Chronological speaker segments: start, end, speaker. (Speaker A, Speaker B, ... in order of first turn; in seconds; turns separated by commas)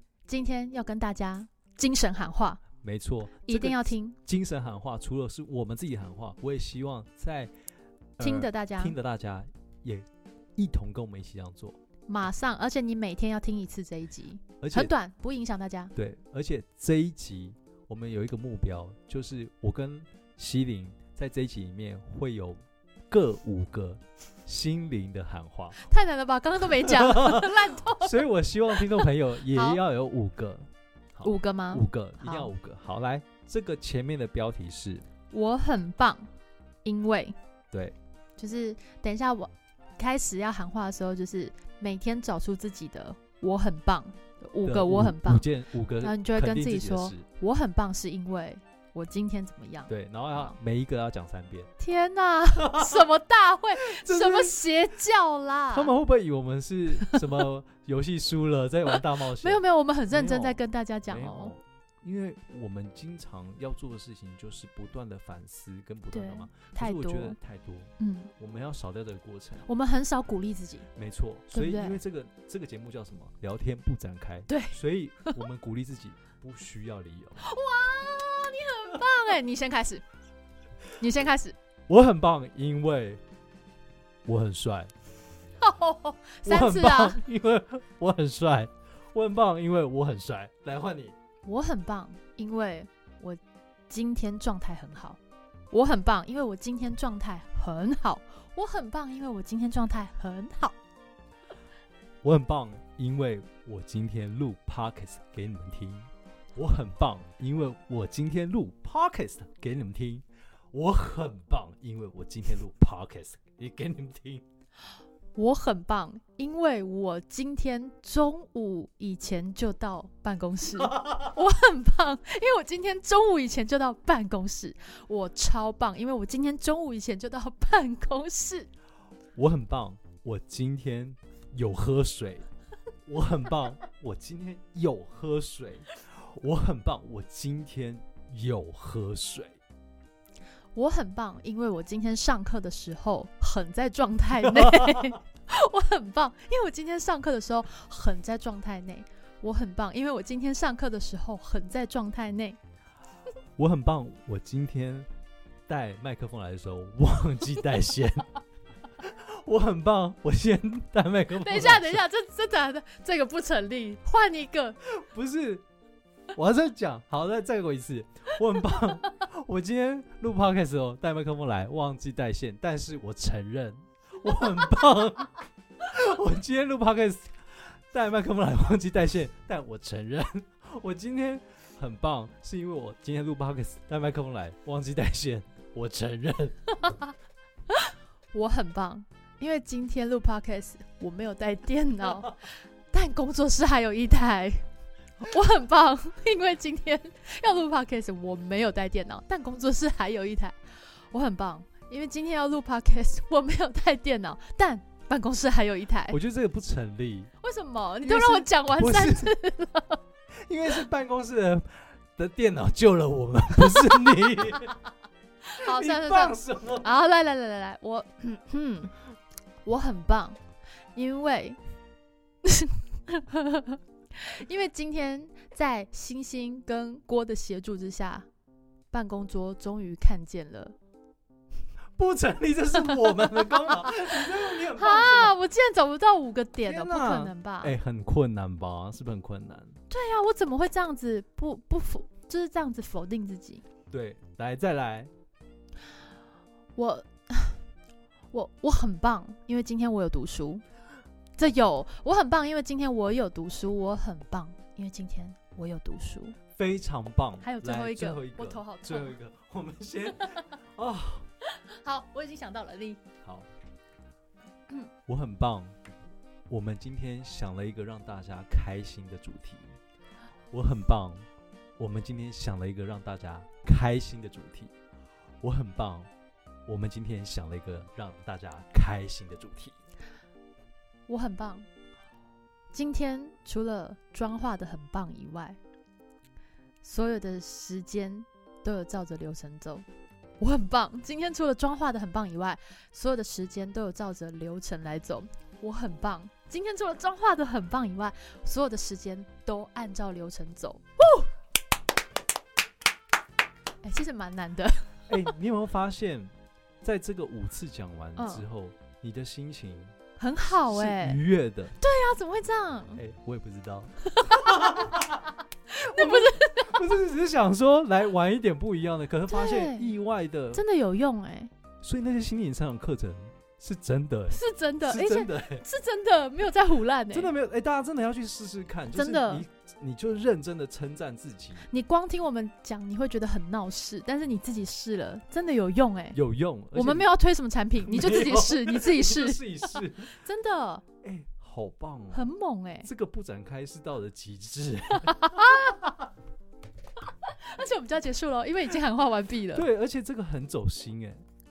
Speaker A: 0.3-2.6, Speaker B: 2.8-7.5, Speaker A: 3.5-4.2, Speaker B: 8.2-11.8, Speaker A: 8.2-8.9, Speaker A: 12.1-15.9, Speaker B: 14.6-14.9, Speaker B: 15.9-25.8, Speaker A: 25.8-28.1, Speaker B: 26.8-35.0, Speaker A: 28.8-29.8, Speaker A: 31.2-32.5, Speaker A: 35.3-36.3, Speaker A: 36.8-37.4, Speaker B: 37.7-38.0, Speaker A: 38.4-45.5, Speaker B: 44.6-47.2, Speaker A: 46.0-50.6, Speaker B: 49.9-51.7, Speaker A: 51.8-55.9, Speaker B: 52.5-53.0, Speaker B: 53.8-54.6, Speaker B: 55.7-69.7, Speaker A: 58.9-61.5, Speaker A: 66.1-67.4, Speaker A: 68.0-68.3, Speaker A: 69.7-70.9, Speaker B: 70.9-77.4, Speaker A: 71.5-72.0, Speaker A: 74.5-75.4, Speaker A: 77.4-80.0, Speaker A: 81.0-81.5, Speaker B: 81.9-83.2, Speaker B: 84.2-84.9, Speaker A: 85.6-87.2, Speaker B: 86.5-91.2, Speaker A: 91.4-95.2, Speaker A: 95.7-100.8, Speaker B: 102.2-114.4, Speaker A: 115.3-128.7, Speaker B: 120.8-121.3, Speaker B: 129.3-132.5, Speaker B: 133.1-139.6, Speaker A: 140.7-152.6, Speaker B: 144.4-145.1, Speaker B: 153.6-155.1, Speaker B: 155.7-158.3, Speaker B: 159.0-162.1, Speaker A: 161.3-164.8, Speaker B: 164.9-165.6, Speaker B: 166.3-186.6, Speaker A: 186.8-187.1, Speaker A: 187.7-194.6, Speaker A: 195.2-206.2, Speaker B: 206.1-207.3, Speaker A: 207.4-210.0, Speaker B: 208.0-209.3, Speaker B: 210.4-214.7, Speaker A: 213.6-214.1, Speaker A: 215.5-218.9, Speaker B: 215.6-216.9, Speaker A: 219.6-220.4, Speaker A: 220.9-221.6, Speaker A: 222.4-228.3, Speaker A: 228.9-230.7, Speaker B: 232.0-235.4, Speaker A: 232.9-237.7, Speaker B: 236.6-239.8, Speaker A: 239.9-243.6, Speaker B: 243.9-245.1, Speaker A: 246.8-247.6, Speaker A: 248.3-250.6, Speaker A: 251.4-256.4, Speaker B: 256.5-261.3, Speaker A: 257.4-259.1, Speaker A: 260.2-260.4, Speaker A: 261.7-263.0, Speaker B: 263.2-263.5, Speaker B: 265.1-265.8, Speaker B: 266.5-269.8, Speaker B: 270.5-271.3, Speaker B: 271.8-274.7, Speaker B: 275.4-276.1, Speaker B: 276.6-279.8, Speaker A: 281.1-281.7, Speaker A: 282.7-285.6, Speaker A: 286.8-289.9, Speaker A: 290.4-301.0, Speaker A: 303.8-305.3, Speaker B: 305.1-309.9, Speaker A: 308.1-308.4, Speaker A: 310.2-311.2, Speaker B: 310.6-311.8, Speaker A: 311.8-313.0, Speaker B: 312.9-315.2, Speaker A: 314.1-314.9, Speaker A: 315.7-316.8, Speaker B: 315.9-320.6, Speaker A: 319.3-319.9, Speaker A: 320.5-321.5, Speaker B: 321.8-325.6, Speaker A: 324.3-327.3, Speaker B: 327.1-331.7, Speaker A: 328.9-329.4, Speaker A: 331.7-336.2, Speaker B: 336.1-337.1, Speaker A: 336.7-340.8, Speaker B: 337.8-340.1, Speaker B: 341.0-342.3, Speaker A: 342.1-342.9, Speaker B: 342.8-345.8, Speaker A: 344.9-345.9, Speaker A: 347.2-349.6, Speaker B: 349.5-351.2